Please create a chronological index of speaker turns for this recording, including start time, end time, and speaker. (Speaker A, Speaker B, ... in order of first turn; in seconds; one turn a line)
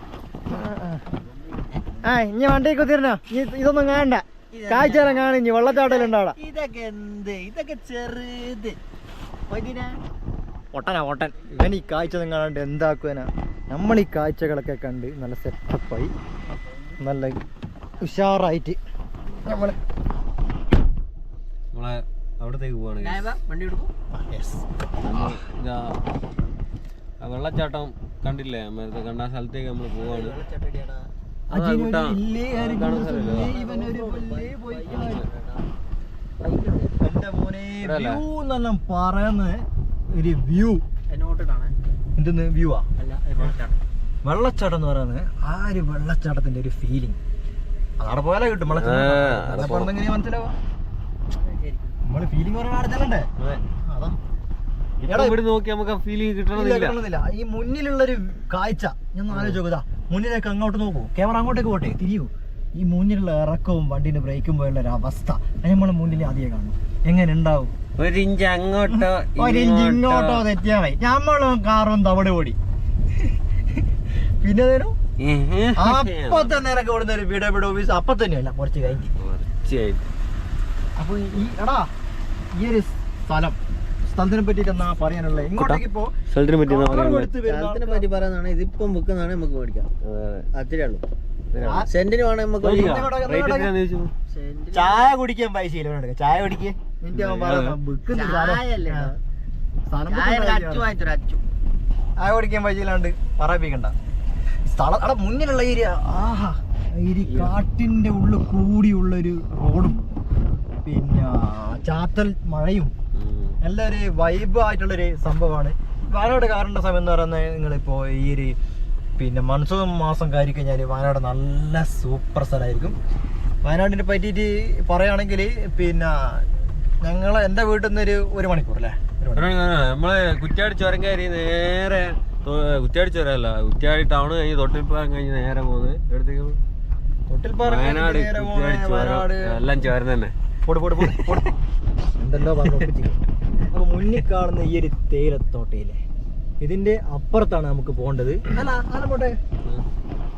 Speaker A: 0.5-1.1
Speaker B: 1.2-1.8
Speaker A: 2.0-6.4
Speaker C: 4.5-8.8
Speaker C: 9.5-10.0
Speaker A: 10.7-16.1
Speaker A: 17.0-17.4
Speaker A: 18.0-18.8
Speaker A: 19.4-19.8
Speaker B: 21.7-23.3
Speaker C: 23.0-23.9
Speaker A: 24.1-24.7
Speaker B: 25.0-26.0
Speaker B: 27.2-30.4
Speaker C: 29.9-31.1
Speaker B: 31.5-33.6
Speaker A: 31.5-35.2
Speaker C: 32.9-35.6
Speaker B: 35.0-35.2
Speaker C: 36.4-36.9
Speaker A: 37.0-40.8
Speaker B: 37.8-38.2
Speaker C: 41.1-41.7
Speaker A: 42.1-42.9
Speaker C: 43.0-43.8
Speaker A: 44.2-47.2
Speaker A: 48.0-50.5
Speaker B: 48.7-49.9
Speaker C: 51.3-52.0
Speaker A: 52.0-53.3
Speaker B: 53.4-53.6
Speaker A: 53.8-54.2
Speaker B: 55.0-57.0
Speaker A: 55.0-55.4
Speaker A: 56.5-67.7
Speaker B: 59.3-59.6
Speaker B: 66.0-66.5
Speaker B: 68.0-70.5
Speaker A: 68.9-72.6
Speaker A: 73.1-73.8
Speaker A: 74.4-75.0
Speaker B: 75.2-76.7
Speaker A: 75.7-79.1
Speaker B: 79.2-80.1
Speaker A: 81.0-81.9
Speaker A: 82.5-86.1
Speaker B: 85.5-87.3
Speaker A: 86.6-88.1
Speaker C: 87.3-89.9
Speaker B: 90.0-90.5
Speaker C: 90.5-91.0
Speaker B: 91.5-91.9
Speaker A: 91.6-91.9
Speaker C: 91.9-93.1
Speaker B: 92.6-94.1
Speaker A: 92.7-93.7
Speaker C: 94.3-95.1
Speaker A: 94.7-99.1
Speaker B: 97.1-97.8
Speaker C: 98.1-99.2
Speaker A: 99.9-100.9
Speaker C: 100.1-101.4
Speaker A: 102.2-103.9
Speaker A: 104.6-110.0
Speaker B: 107.2-107.6
Speaker A: 110.8-112.9
Speaker B: 113.1-113.6
Speaker A: 113.6-118.6
Speaker A: 119.2-123.0
Speaker A: 123.6-129.5
Speaker B: 129.3-136.6
Speaker A: 137.3-139.6
Speaker B: 137.6-140.3
Speaker A: 140.6-141.5
Speaker B: 141.0-141.4
Speaker A: 142.2-146.0
Speaker A: 146.6-149.3